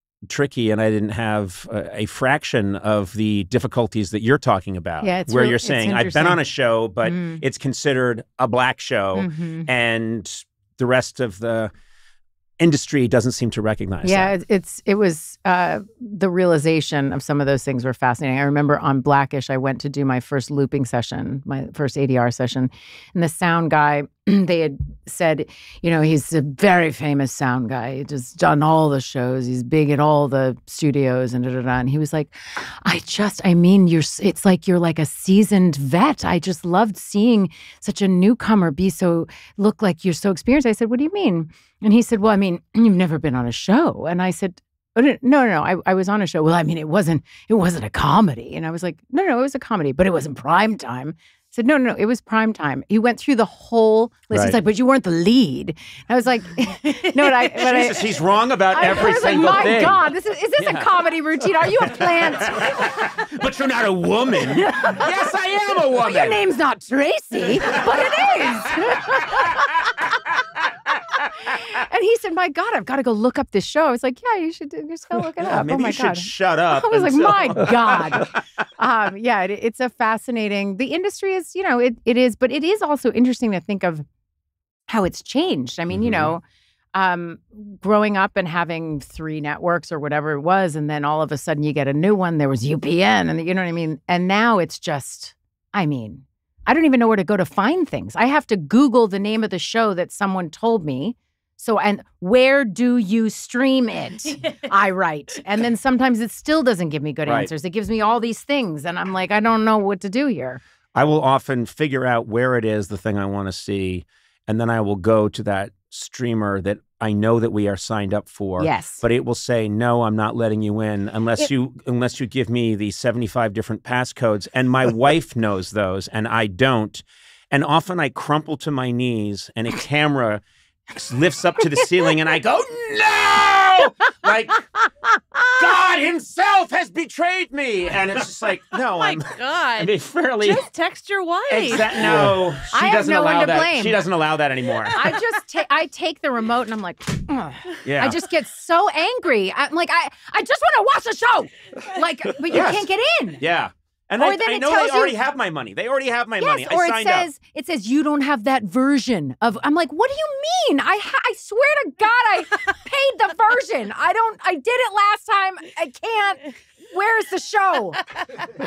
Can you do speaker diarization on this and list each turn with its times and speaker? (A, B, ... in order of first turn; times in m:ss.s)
0:00.3-0:11.7 A
0:05.0-0:06.4 B
0:07.0-0:07.4 B
0:09.2-0:09.7 B
0:12.6-0:14.4 A
0:14.0-1:03.2 B
0:54.3-0:54.6 A
0:57.3-1:00.0 A
1:00.6-1:00.9 A
1:01.8-1:06.4 A
1:04.4-1:10.4 B
1:11.2-1:24.0 B
1:15.4-1:18.4 A
1:24.9-1:26.4 B
1:25.9-1:26.3 A
1:26.9-1:50.6 B
1:51.0-2:14.7 A
1:58.6-1:59.0 B
2:15.6-2:20.7 A
2:19.0-2:22.1 C
2:21.5-2:25.2 A
2:22.7-2:24.0 B
2:24.9-2:33.4 B
2:27.8-2:28.2 A
2:32.5-2:32.9 A
2:33.4-2:37.3 A
2:34.2-2:35.2 B
2:36.4-2:48.0 B